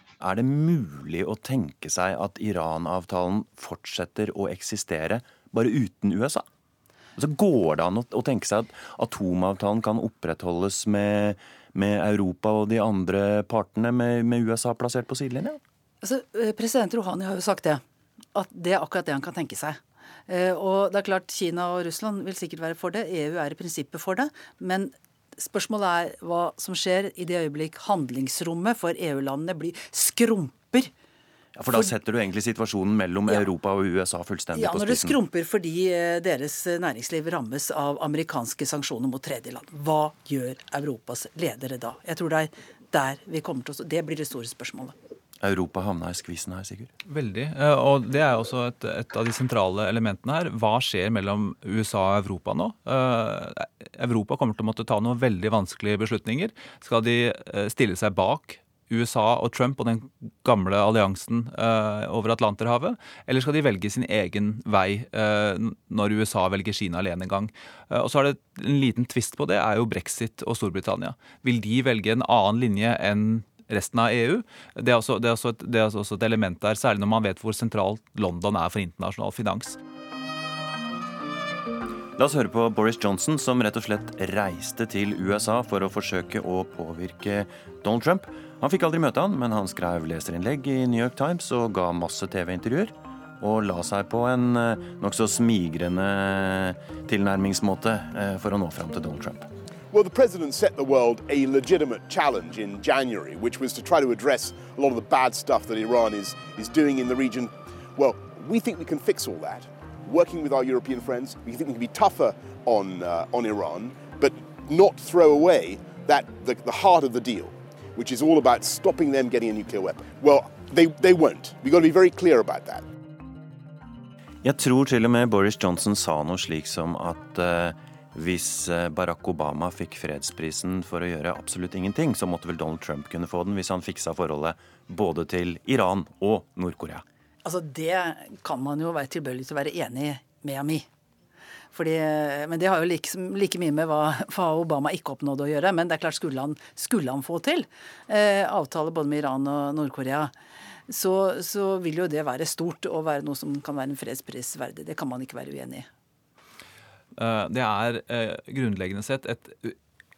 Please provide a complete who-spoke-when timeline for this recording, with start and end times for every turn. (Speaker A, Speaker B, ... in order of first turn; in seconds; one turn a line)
Speaker A: 0.2-6.5
Speaker A: 7.2-15.6
Speaker B: 16.0-17.8
Speaker B: 18.4-30.9
Speaker A: 31.6-35.2
Speaker B: 34.5-45.0
Speaker A: 45.4-46.9
Speaker C: 47.1-79.8
Speaker A: 82.2-99.5
Speaker D: 99.9-122.9
Speaker A: 124.4-137.0
Speaker B: 137.4-140.9
Speaker B: 141.7-150.3
Speaker B: 150.9-155.9
Speaker C: 157.2-159.8